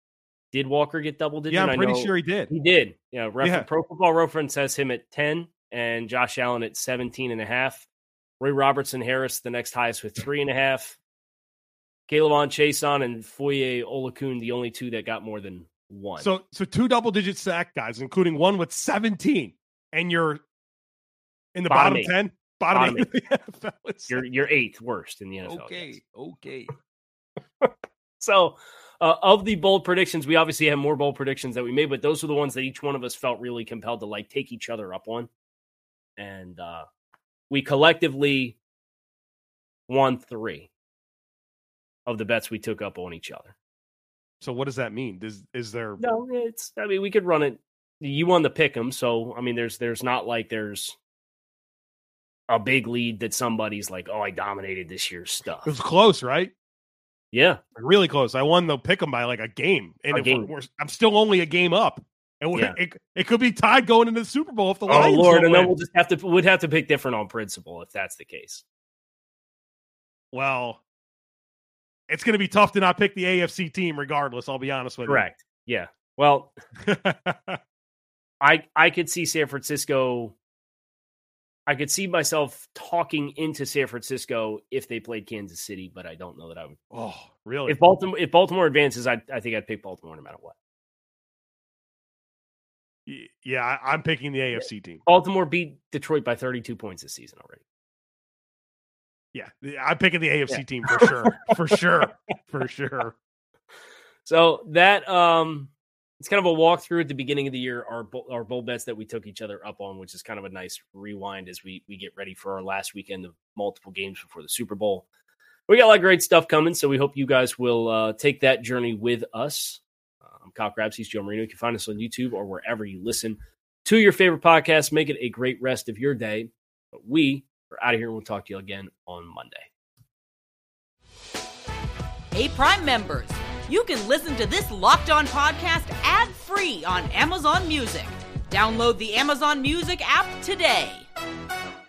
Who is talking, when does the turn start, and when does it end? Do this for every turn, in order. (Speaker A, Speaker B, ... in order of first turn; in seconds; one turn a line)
Speaker A: 0.5-7.9
Speaker B: 1.5-2.5
Speaker B: 3.4-3.7
Speaker A: 8.4-11.0
Speaker A: 12.1-16.3
Speaker B: 16.2-20.4
Speaker B: 21.6-24.2
Speaker A: 21.7-22.1
Speaker A: 22.7-23.1
Speaker A: 24.1-26.0
Speaker B: 25.4-26.7
Speaker A: 27.6-35.3
Speaker A: 36.2-36.9
Speaker A: 37.5-38.6
Speaker A: 39.9-40.7
Speaker A: 42.1-43.5
Speaker B: 44.4-46.0
Speaker A: 46.0-51.0
Speaker A: 52.5-55.7
Speaker B: 55.6-56.5
Speaker A: 57.3-57.6
Speaker B: 57.8-65.7
Speaker A: 60.1-60.5
Speaker A: 64.9-68.6
Speaker B: 70.3-70.8
Speaker B: 72.1-75.3
Speaker A: 75.1-76.5
Speaker B: 76.8-77.6
Speaker A: 78.4-80.4
Speaker A: 81.7-86.8
Speaker B: 86.9-87.8
Speaker A: 87.7-90.5
Speaker B: 93.1-95.0
Speaker A: 95.1-97.6
Speaker B: 99.3-103.2
Speaker A: 100.5-101.4
Speaker A: 104.2-115.0
Speaker A: 115.7-129.7
Speaker C: 132.3-141.1